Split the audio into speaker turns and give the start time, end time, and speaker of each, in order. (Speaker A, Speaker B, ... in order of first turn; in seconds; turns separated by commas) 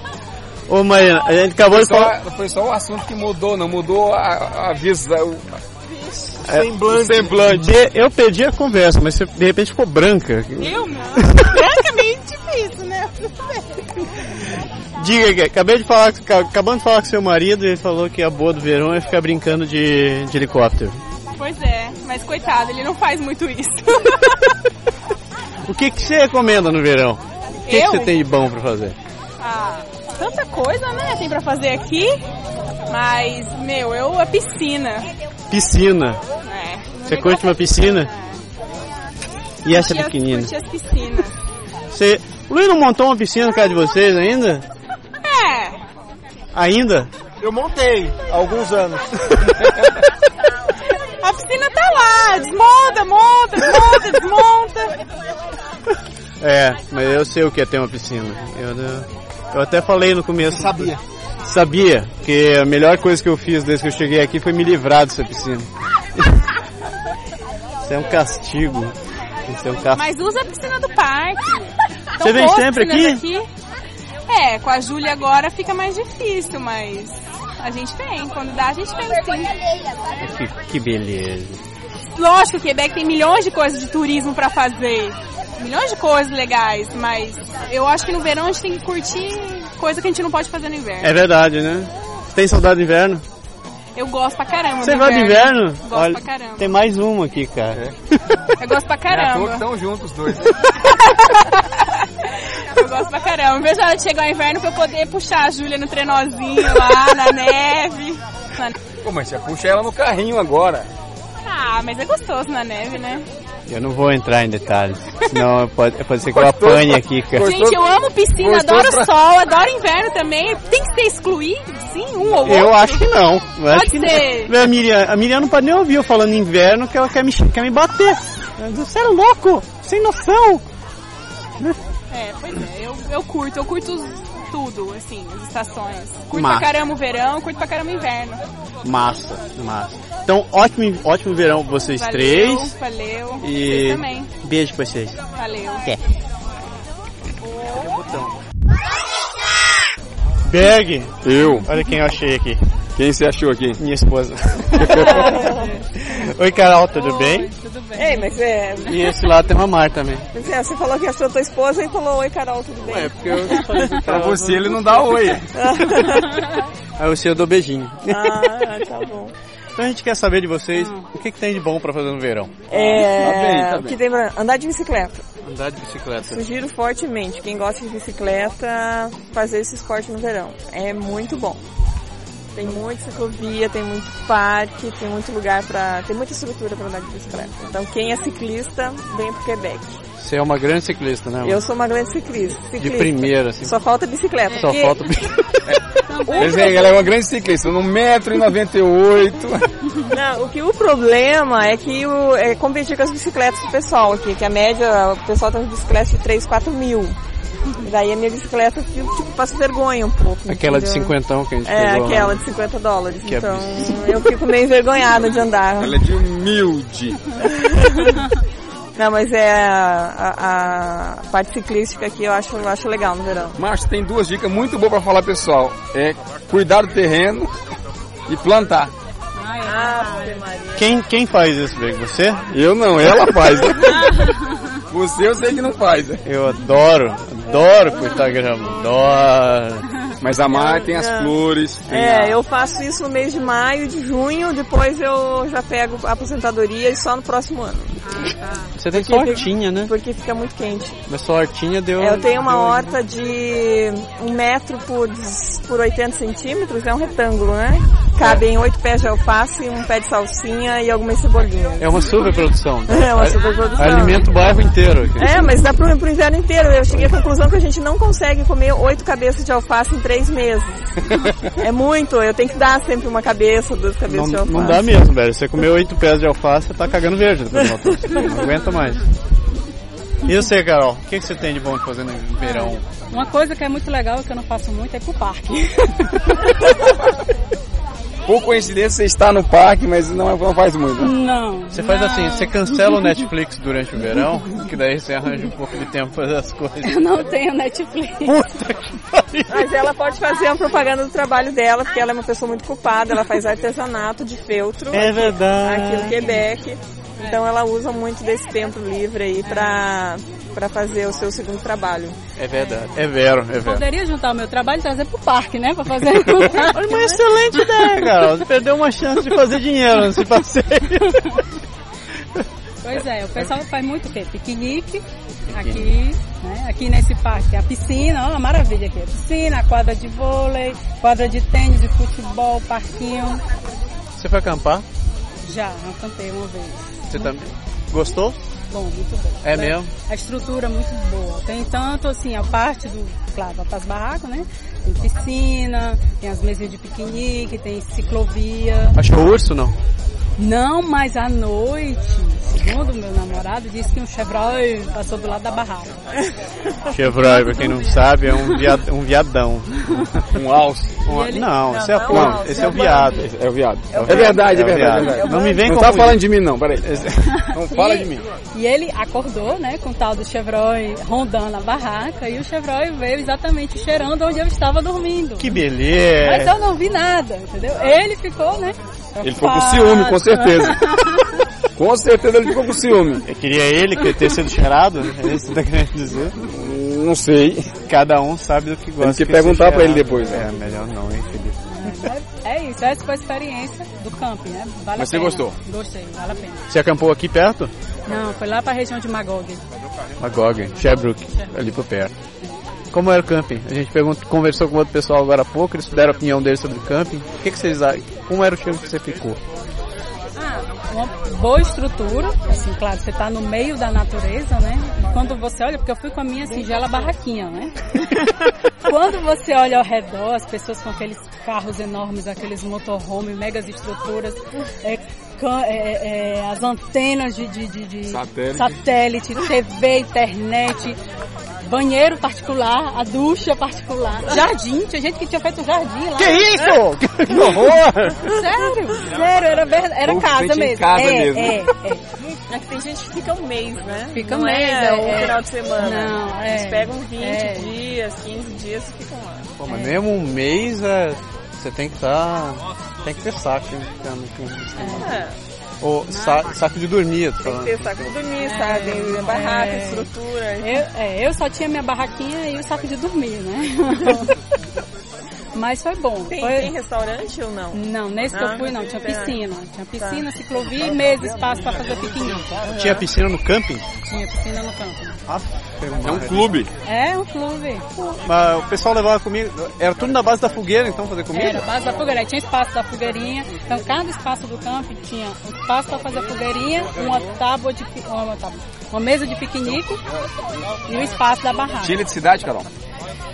Speaker A: 0.7-2.1, Speaker B: 1.7-5.5, Speaker C: 6.4-7.5, Speaker B: 6.6-7.7, Speaker A: 7.4-11.5, Speaker D: 10.6-13.6, Speaker A: 15.0-21.0, Speaker D: 21.4-24.4, Speaker A: 25.6-29.0, Speaker D: 27.7-28.1, Speaker D: 29.4-32.2, Speaker D: 32.9-35.1, Speaker A: 35.5-36.2, Speaker D: 36.5-38.4, Speaker A: 37.0-38.1, Speaker A: 39.6-40.5, Speaker D: 39.7-41.3, Speaker A: 41.9-44.7, Speaker D: 45.2-45.8, Speaker A: 46.5-47.1, Speaker C: 47.4-49.1, Speaker D: 51.2-54.9, Speaker A: 56.4-66.5, Speaker C: 60.4-61.0, Speaker A: 67.8-70.1, Speaker D: 69.9-73.5, Speaker A: 72.2-73.3, Speaker D: 74.3-79.5, Speaker A: 80.2-81.6, Speaker D: 82.2-91.1, Speaker A: 91.0-93.2, Speaker D: 94.0-96.8, Speaker A: 94.8-97.8, Speaker D: 98.6-99.6, Speaker B: 99.0-100.6, Speaker D: 102.8-108.7, Speaker B: 109.0-110.9, Speaker D: 111.5-113.2, Speaker A: 113.7-117.5, Speaker B: 116.3-119.2, Speaker D: 117.4-123.1, Speaker B: 122.2-122.5, Speaker A: 122.4-130.7, Speaker D: 123.7-124.5, Speaker D: 132.1-138.4, Speaker A: 136.3-136.8, Speaker A: 138.8-142.7, Speaker D: 141.9-144.3, Speaker A: 143.4-145.2, Speaker D: 145.4-145.8, Speaker A: 147.8-148.3, Speaker A: 150.4-152.6, Speaker B: 151.2-151.7, Speaker B: 153.0-153.8, Speaker A: 153.8-157.5, Speaker B: 154.8-155.3, Speaker E: 155.1-155.7, Speaker F: 155.4-155.8, Speaker F: 156.9-158.4, Speaker E: 158.0-159.0, Speaker A: 158.9-160.3, Speaker E: 160.3-163.6, Speaker A: 162.8-165.2, Speaker B: 164.0-165.5, Speaker E: 165.5-166.4, Speaker A: 167.0-168.7, Speaker E: 168.1-169.3, Speaker A: 169.8-172.6, Speaker F: 170.8-171.0, Speaker E: 172.7-175.2, Speaker B: 172.7-174.0, Speaker A: 175.4-176.4, Speaker E: 176.2-181.6, Speaker E: 182.6-190.0, Speaker A: 190.2-191.6, Speaker E: 191.4-194.9, Speaker A: 192.8-193.8, Speaker F: 194.5-194.9, Speaker A: 194.5-195.8, Speaker F: 196.1-196.6, Speaker E: 196.3-196.8, Speaker B: 196.4-199.7, Speaker E: 200.1-207.2, Speaker E: 207.8-211.1, Speaker A: 210.5-212.4, Speaker E: 211.7-216.0, Speaker A: 213.2-214.0, Speaker B: 215.8-217.2, Speaker E: 217.4-218.2, Speaker E: 219.0-223.6, Speaker B: 223.6-227.5, Speaker B: 228.3-228.9, Speaker F: 229.4-230.4, Speaker E: 229.7-230.9, Speaker A: 230.8-232.5, Speaker B: 232.5-234.2, Speaker B: 234.9-236.2, Speaker A: 236.2-239.8, Speaker B: 240.2-242.3, Speaker E: 240.5-248.0, Speaker A: 248.8-249.9, Speaker E: 248.9-251.0, Speaker A: 251.1-252.9, Speaker E: 252.0-262.2, Speaker A: 261.8-265.6, Speaker E: 262.9-264.3, Speaker E: 265.2-270.9, Speaker E: 271.6-274.8, Speaker A: 274.1-279.1, Speaker A: 280.2-282.9, Speaker F: 282.4-286.5, Speaker B: 288.3-291.1, Speaker F: 291.0-293.3, Speaker A: 291.7-297.1, Speaker F: 296.8-298.4, Speaker A: 298.2-299.7, Speaker E: 299.5-312.2, Speaker A: 304.9-306.4, Speaker F: 309.4-309.8, Speaker A: 312.4-313.8, Speaker F: 312.6-312.9, Speaker F: 313.6-318.0, Speaker A: 316.1-321.4, Speaker F: 322.8-333.4, Speaker A: 325.5-325.9, Speaker A: 334.2-334.9, Speaker F: 335.4-337.4, Speaker A: 337.1-338.4, Speaker F: 338.7-349.0, Speaker A: 339.4-339.9, Speaker A: 348.9-349.8, Speaker F: 350.4-355.9, Speaker A: 356.9-360.2, Speaker F: 357.2-358.6, Speaker B: 360.3-361.0, Speaker A: 361.1-363.3, Speaker F: 361.1-361.6, Speaker E: 361.6-363.2, Speaker B: 362.1-362.5, Speaker B: 363.0-368.2, Speaker E: 363.9-365.6, Speaker A: 363.9-366.2, Speaker A: 366.8-367.3, Speaker F: 367.7-375.6, Speaker A: 375.4-376.6, Speaker F: 376.2-381.2, Speaker B: 379.2-380.8, Speaker B: 381.8-383.2, Speaker A: 383.3-386.4, Speaker B: 386.4-387.8, Speaker A: 387.9-392.0, Speaker B: 389.0-390.5, Speaker F: 391.7-396.6, Speaker B: 395.0-395.6, Speaker A: 396.7-397.7, Speaker F: 398.1-399.6, Speaker A: 400.2-402.2, Speaker A: 402.9-409.4, Speaker F: 410.4-417.7, Speaker F: 418.9-431.0, Speaker B: 428.1-428.7, Speaker F: 431.6-436.7, Speaker A: 436.2-438.3, Speaker F: 438.2-442.0, Speaker B: 440.0-441.6, Speaker E: 442.5-449.5, Speaker F: 444.1-447.7, Speaker A: 449.6-455.2, Speaker F: 449.7-450.0, Speaker F: 454.8-455.1, Speaker E: 455.0-455.4, Speaker A: 455.8-458.1, Speaker F: 456.1-456.6, Speaker E: 457.4-460.8, Speaker F: 458.4-460.1, Speaker F: 460.6-464.4, Speaker F: 465.6-466.7, Speaker E: 466.3-467.8, Speaker F: 467.7-472.6, Speaker E: 468.3-469.4, Speaker E: 470.0-470.3, Speaker A: 472.6-473.9, Speaker E: 472.7-473.0, Speaker F: 474.0-475.2, Speaker A: 475.3-476.6, Speaker B: 476.0-476.7, Speaker F: 476.9-477.9, Speaker A: 478.0-481.7, Speaker F: 481.3-490.0, Speaker F: 490.9-491.9, Speaker B: 491.8-492.7